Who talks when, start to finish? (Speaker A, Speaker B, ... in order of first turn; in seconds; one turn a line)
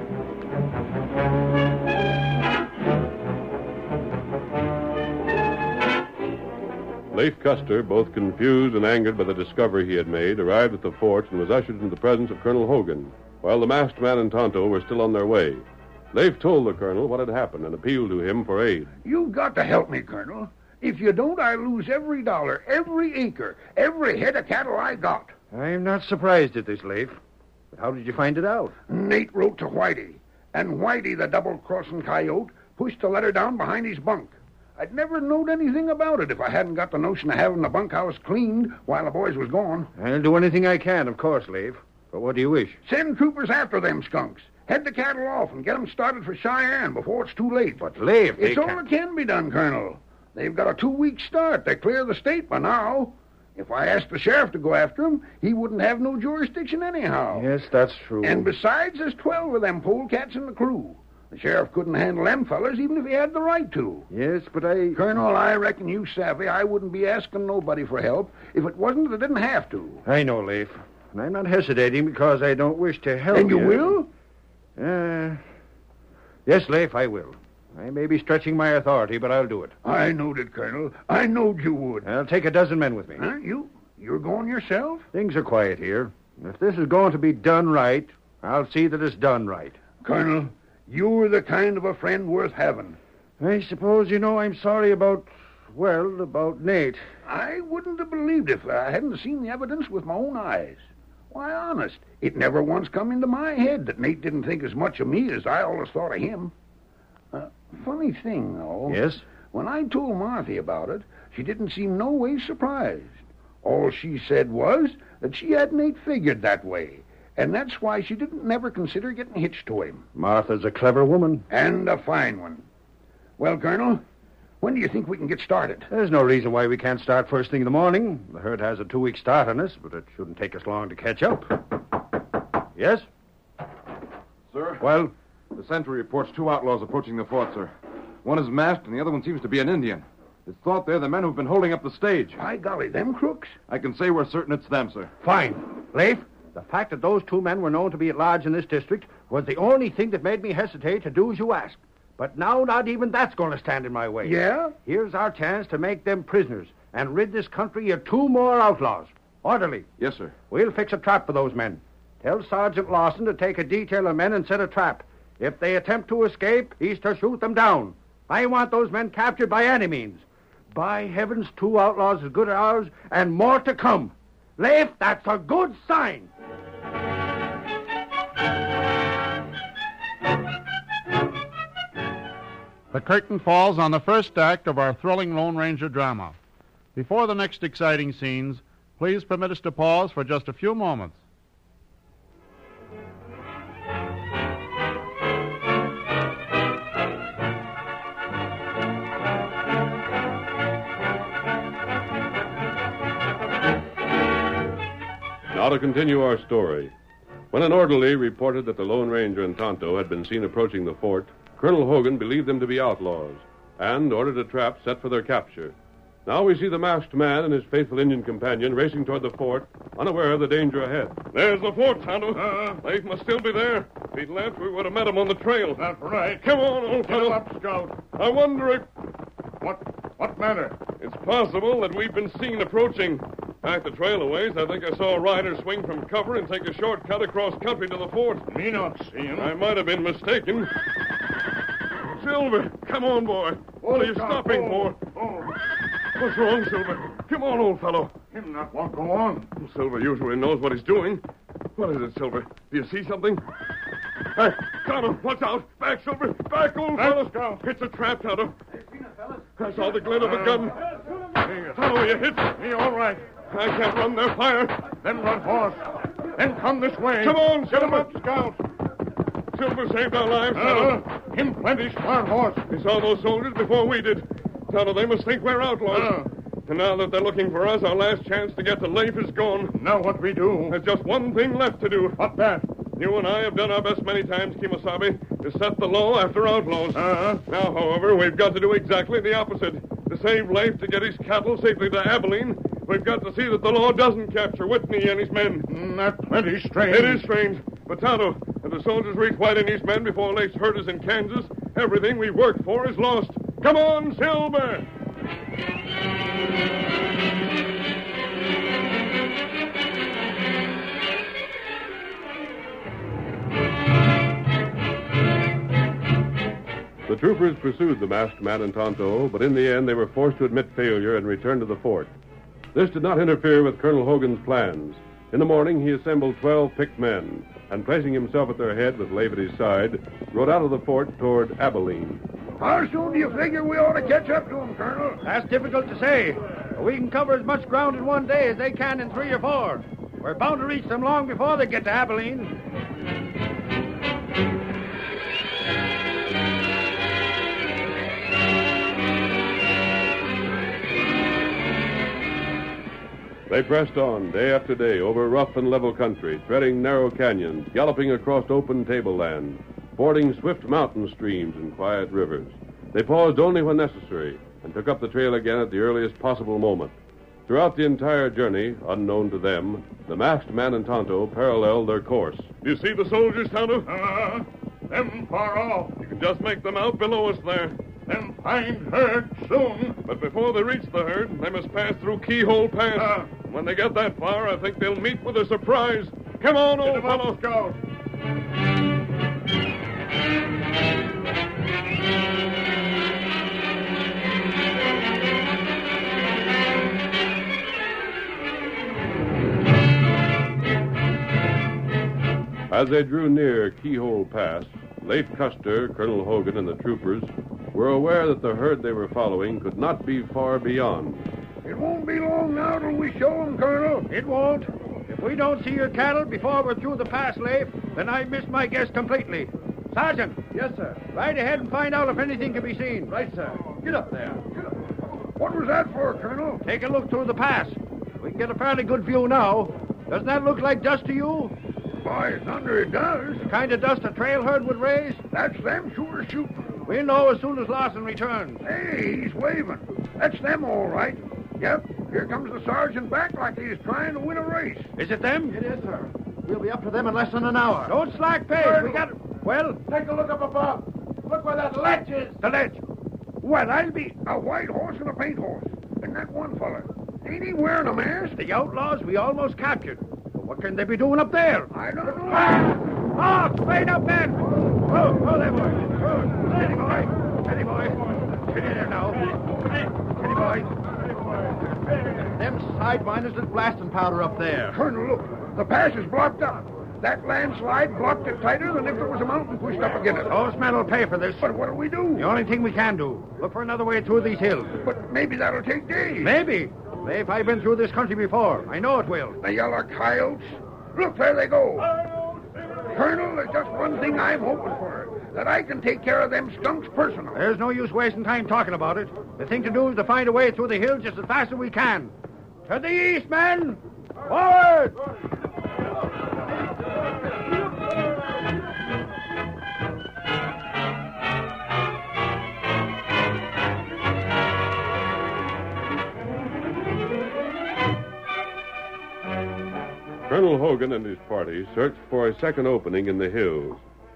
Speaker A: 7.1-18.9
Speaker B: 19.0-25.3
Speaker C: 25.5-27.2
Speaker C: 27.7-28.7
Speaker B: 28.9-39.9
Speaker C: 40.0-42.8
Speaker B: 42.8-57.5
Speaker C: 47.8-48.8
Speaker C: 57.3-58.5
Speaker B: 58.2-64.1
Speaker C: 64.1-65.0
Speaker B: 64.9-70.0
Speaker C: 70.0-73.9
Speaker B: 73.3-74.1
Speaker C: 74.8-75.4
Speaker C: 76.5-79.7
Speaker B: 79.8-82.1
Speaker C: 82.0-83.2
Speaker B: 83.2-85.1
Speaker C: 85.1-89.8
Speaker B: 90.0-93.0
Speaker C: 93.4-97.0
Speaker B: 97.2-106.5
Speaker B: 107.3-109.0
Speaker C: 108.9-109.2
Speaker B: 109.5-120.0
Speaker C: 120.1-121.4
Speaker B: 121.5-122.6
Speaker B: 123.4-124.0
Speaker B: 124.6-125.9
Speaker C: 125.9-131.8
Speaker C: 132.7-133.1
Speaker D: 134.5-137.7
Speaker C: 134.8-135.1
Speaker D: 138.2-142.4
Speaker B: 142.4-143.5
Speaker D: 143.7-145.1
Speaker C: 145.2-159.9
Speaker B: 154.2-154.7
Speaker D: 160.0-160.3
Speaker C: 160.5-176.3
Speaker E: 182.9-186.3
Speaker E: 186.9-191.2
Speaker A: 205.5-206.9
Speaker A: 207.5-215.7
Speaker A: 216.2-221.2
Speaker F: 221.3-225.8
Speaker G: 222.3-222.8
Speaker G: 225.8-226.5
Speaker F: 226.4-227.4
Speaker G: 227.0-228.0
Speaker F: 228.1-228.8
Speaker G: 229.6-230.8
Speaker F: 231.0-238.5
Speaker G: 238.5-239.5
Speaker F: 239.4-240.7
Speaker F: 242.0-245.0
Speaker G: 243.8-245.6
Speaker F: 246.1-248.1
Speaker G: 248.3-249.5
Speaker F: 249.6-251.2
Speaker F: 251.8-253.4
Speaker F: 254.3-258.5
Speaker G: 256.9-257.6
Speaker F: 259.6-260.8
Speaker G: 259.9-260.7
Speaker G: 261.4-263.2
Speaker F: 261.7-262.5
Speaker F: 263.5-264.8
Speaker G: 265.0-268.6
Speaker F: 267.2-268.1
Speaker F: 269.5-271.0
Speaker G: 270.5-272.6
Speaker F: 272.7-279.8
Speaker G: 275.9-276.3
Speaker G: 279.7-280.8
Speaker F: 280.7-282.2
Speaker G: 282.2-282.7
Speaker F: 282.9-295.7
Speaker G: 286.9-287.4
Speaker G: 295.7-297.3
Speaker F: 296.9-304.9
Speaker A: 317.1-322.1
Speaker A: 322.7-332.2
Speaker B: 332.6-335.2
Speaker C: 335.2-342.6
Speaker A: 353.5-366.9
Speaker A: 367.5-372.5
Speaker F: 372.6-373.9
Speaker G: 373.8-375.9
Speaker F: 376.0-377.8
Speaker G: 378.1-380.0
Speaker F: 380.0-387.4
Speaker G: 382.9-383.3
Speaker G: 386.8-387.8
Speaker A: 402.7-411.3
Speaker B: 411.6-414.1
Speaker C: 414.1-420.4
Speaker H: 420.5-421.0
Speaker C: 421.1-423.1
Speaker H: 423.1-424.5
Speaker B: 425.4-426.6
Speaker C: 426.6-431.5
Speaker B: 432.0-433.4
Speaker C: 433.4-435.2
Speaker B: 435.3-436.8
Speaker C: 436.9-438.6
Speaker B: 438.6-444.9
Speaker C: 445.0-449.8
Speaker H: 448.6-449.0
Speaker H: 449.9-452.3
Speaker C: 452.3-452.8
Speaker C: 453.4-454.2
Speaker B: 454.2-458.4
Speaker C: 458.4-470.8
Speaker B: 461.7-462.7
Speaker C: 471.9-474.8
Speaker B: 474.7-480.3
Speaker C: 480.2-481.5
Speaker B: 481.4-482.3
Speaker C: 482.1-484.8
Speaker B: 484.8-486.4
Speaker C: 486.2-489.4
Speaker B: 489.4-492.0
Speaker B: 492.9-497.4
Speaker C: 497.3-502.1
Speaker C: 502.6-505.0
Speaker A: 520.3-523.8